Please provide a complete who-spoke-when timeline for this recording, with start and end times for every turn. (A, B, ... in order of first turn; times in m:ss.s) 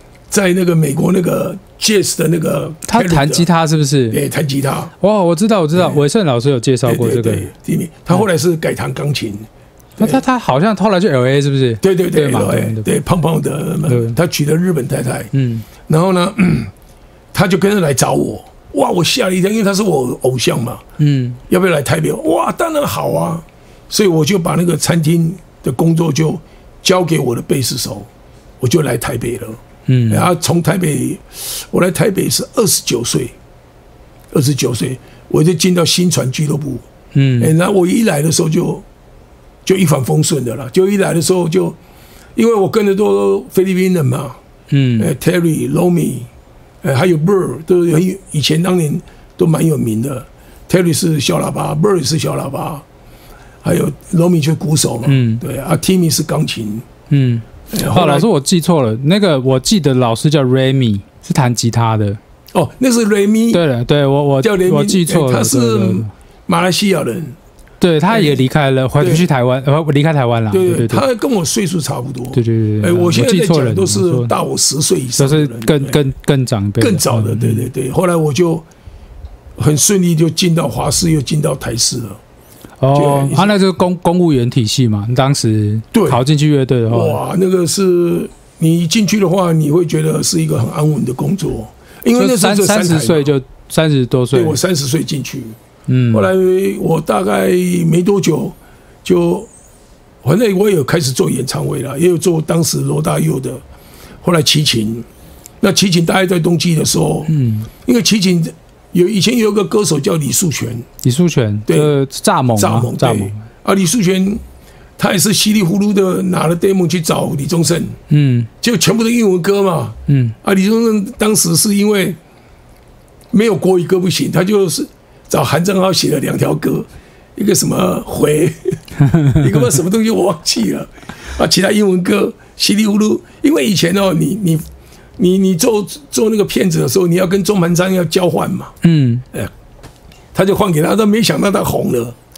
0:00.3-0:03.5 A
0:02.9-0:04.2 B
0:04.1-0:04.9 A
0:05.0-0:07.5 B
0:05.8-0:06.0 A
0:06.8-0:09.5 A
0:10.0-0:12.9 B
0:11.8-0:15.3 A
0:13.9-0:14.2 B
0:15.3-0:15.7 B
0:15.9-0:16.7 A
0:17.3-0:20.8 A
0:21.0-0:21.4 B
0:21.5-0:28.1 A
0:28.6-0:33.4 A
0:29.9-0:30.3 B
0:34.3-0:36.8 A
0:37.1-0:37.5 B
0:37.4-0:38.8 A
0:39.6-0:41.8 A
0:42.4-0:44.4 A
0:44.7-0:45.1 B
0:45.0-0:46.3 A
0:46.8-0:52.8 A
0:53.6-0:56.9 A
0:55.0-0:55.4 B
0:57.1-1:02.2 B
0:57.7-0:58.3 A
1:02.5-1:03.6 A
1:03.5-1:06.1 B
1:04.4-1:07.4 A
1:07.8-1:11.1 B
1:08.1-1:08.4 A
1:09.0-1:09.3 A
1:10.5-1:16.0 A
1:12.3-1:14.3 B
1:15.2-1:17.7 B
1:16.8-1:18.7 A
1:19.6-1:22.2 A
1:22.8-1:27.2 B
1:22.9-1:23.6 A
1:25.9-1:26.2 A
1:26.9-1:33.3 A
1:32.2-1:34.6 B
1:34.3-1:35.6 A
1:35.9-1:36.3 B
1:36.1-1:39.5 A
1:40.2-1:43.6 A
1:44.2-1:45.1 A
1:45.6-1:50.9 A
1:47.3-1:47.7 B
1:51.0-1:53.4 B
1:51.7-1:51.9 A
1:52.6-1:54.4 A
1:55.0-1:58.0 A
1:58.1-1:58.5 B
1:58.6-2:02.2 A
2:00.1-2:00.4 B
2:03.3-2:08.8 A
2:09.0-2:09.5 B
2:09.3-2:14.6 A
2:15.2-2:18.8 A
2:18.8-2:19.2 B
2:20.3-2:22.2 A